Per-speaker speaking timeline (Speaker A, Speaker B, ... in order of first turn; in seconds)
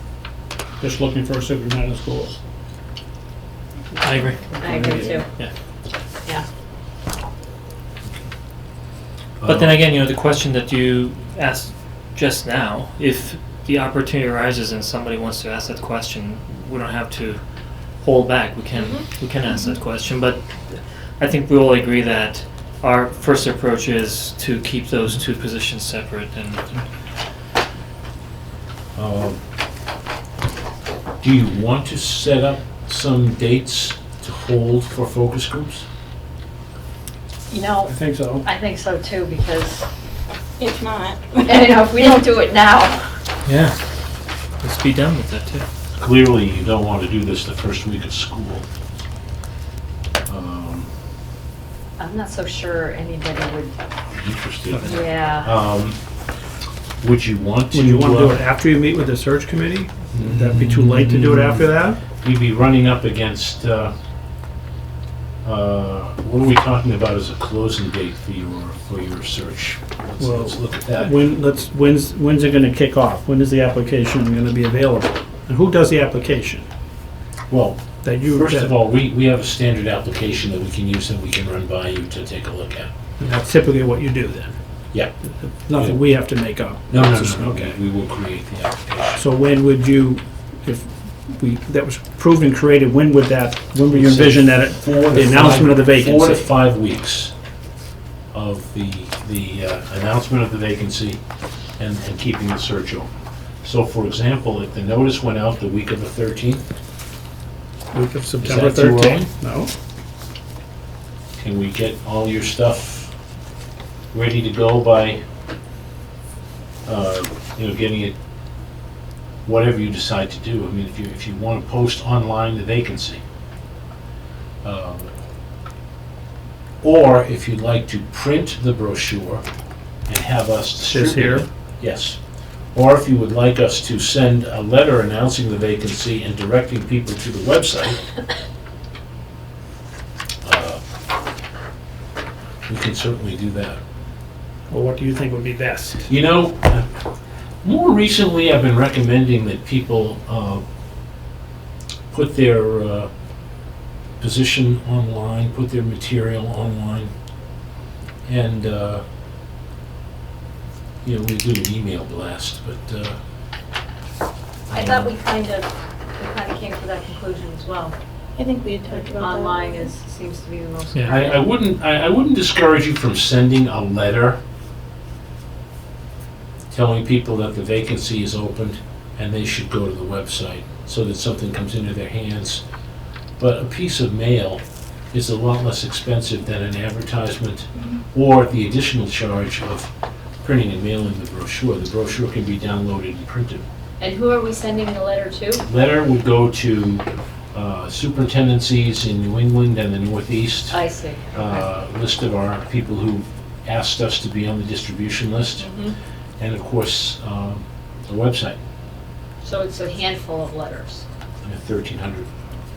Speaker A: 0.8-2.4, 4.6-5.2, 37.9-38.5, 57.7-62.0, 70.2-76.7, 78.0-78.7, 83.2-84.6, 85.4-87.8, 89.2-96.5, 107.9-109.7, 130.8-131.5, 144.7-146.1
Speaker B: 4.0-5.5, 9.4-17.4, 18.0-26.8, 43.5-43.8, 44.6-45.6, 54.7-55.0, 170.9-171.2
Speaker C: 4.6-5.3, 18.7-19.1, 37.5-39.9, 41.5-43.1, 52.0-53.8, 54.8-55.5, 164.7-167.9, 168.9-171.4, 194.0-195.7, 200.7-201.7, 205.6-205.9, 209.4-211.1
Speaker D: 9.4-9.8, 28.9-29.4, 31.2-35.9, 45.9-48.6, 50.3-50.9, 54.1-56.0, 57.0-58.4, 60.1-63.9, 65.4-71.2, 77.5-82.9, 86.9-89.2, 93.9-97.3, 98.3-101.2, 101.8-103.1, 103.6-106.6, 108.4-109.3, 111.4-113.1, 114.1-115.2, 116.9-118.2, 119.5-123.2, 124.6-125.1, 126.8-129.4, 130.1-132.2, 132.7-138.0, 140.4-140.8, 142.7-143.8, 146.1-146.9, 147.6-150.6, 152.1-153.1, 154.2-157.1, 158.3-159.0, 161.0-163.2, 164.7-165.1, 171.1-174.4, 176.7-182.6, 183.4-193.7, 195.7-200.8, 201.3-205.7, 206.4-208.6, 211.4-212.3
Speaker E: 40.6-42.0, 168.4-169.9